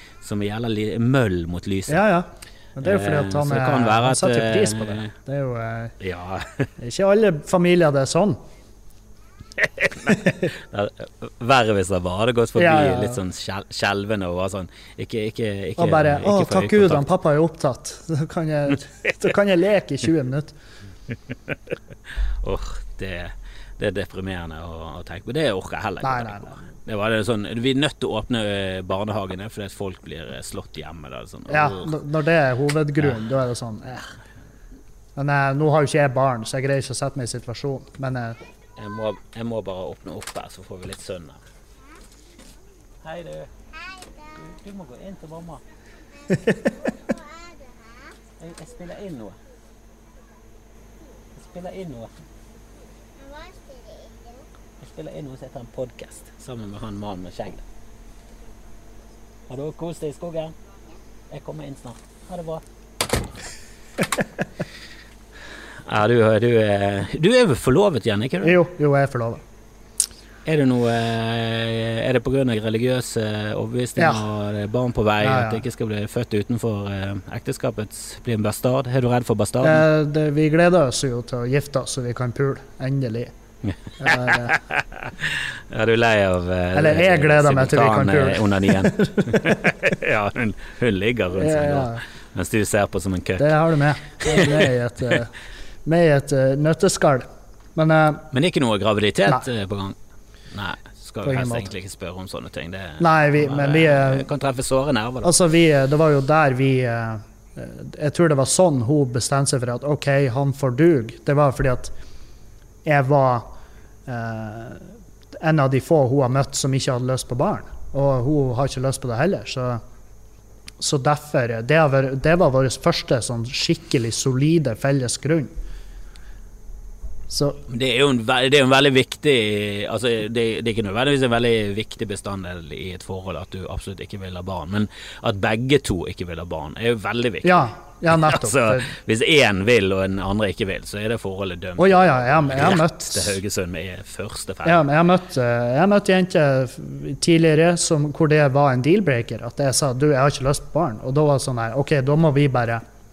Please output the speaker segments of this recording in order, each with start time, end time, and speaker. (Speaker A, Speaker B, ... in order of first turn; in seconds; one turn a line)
Speaker A: 0.2-2.0
Speaker B: 1.9-5.9
Speaker A: 2.8-5.1
Speaker A: 6.0-6.7
Speaker B: 6.8-8.4
Speaker A: 9.6-17.1
Speaker B: 12.6-13.2
Speaker B: 15.8-20.5
Speaker A: 22.4-32.0
Speaker B: 26.0-26.6
Speaker B: 31.5-34.0
Speaker B: 35.1-38.4
Speaker A: 38.8-41.4
Speaker A: 43.0-45.6
Speaker A: 48.4-49.4
Speaker A: 51.3-52.1
Speaker A: 54.8-57.6
Speaker A: 59.5-60.5
Speaker A: 61.3-62.6
Speaker A: 65.8-68.6
Speaker B: 68.4-69.4
Speaker A: 70.4-79.8
Speaker B: 75.2-75.6
Speaker B: 79.6-83.3
Speaker A: 83.6-93.6
Speaker B: 84.0-84.5
Speaker B: 86.7-89.6
Speaker B: 91.4-92.0
Speaker B: 93.4-95.3
Speaker A: 94.2-94.7
Speaker B: 95.8-98.2
Speaker A: 98.3-100.0
Speaker A: 100.5-105.3
Speaker B: 101.2-101.7
Speaker B: 103.0-104.2
Speaker B: 105.2-111.9
Speaker B: 112.8-113.5
Speaker B: 114.1-119.8
Speaker B: 120.8-125.5
Speaker B: 127.3-127.6
Speaker A: 127.7-144.8
Speaker B: 137.4-138.9
Speaker B: 141.8-143.4
Speaker B: 144.6-152.8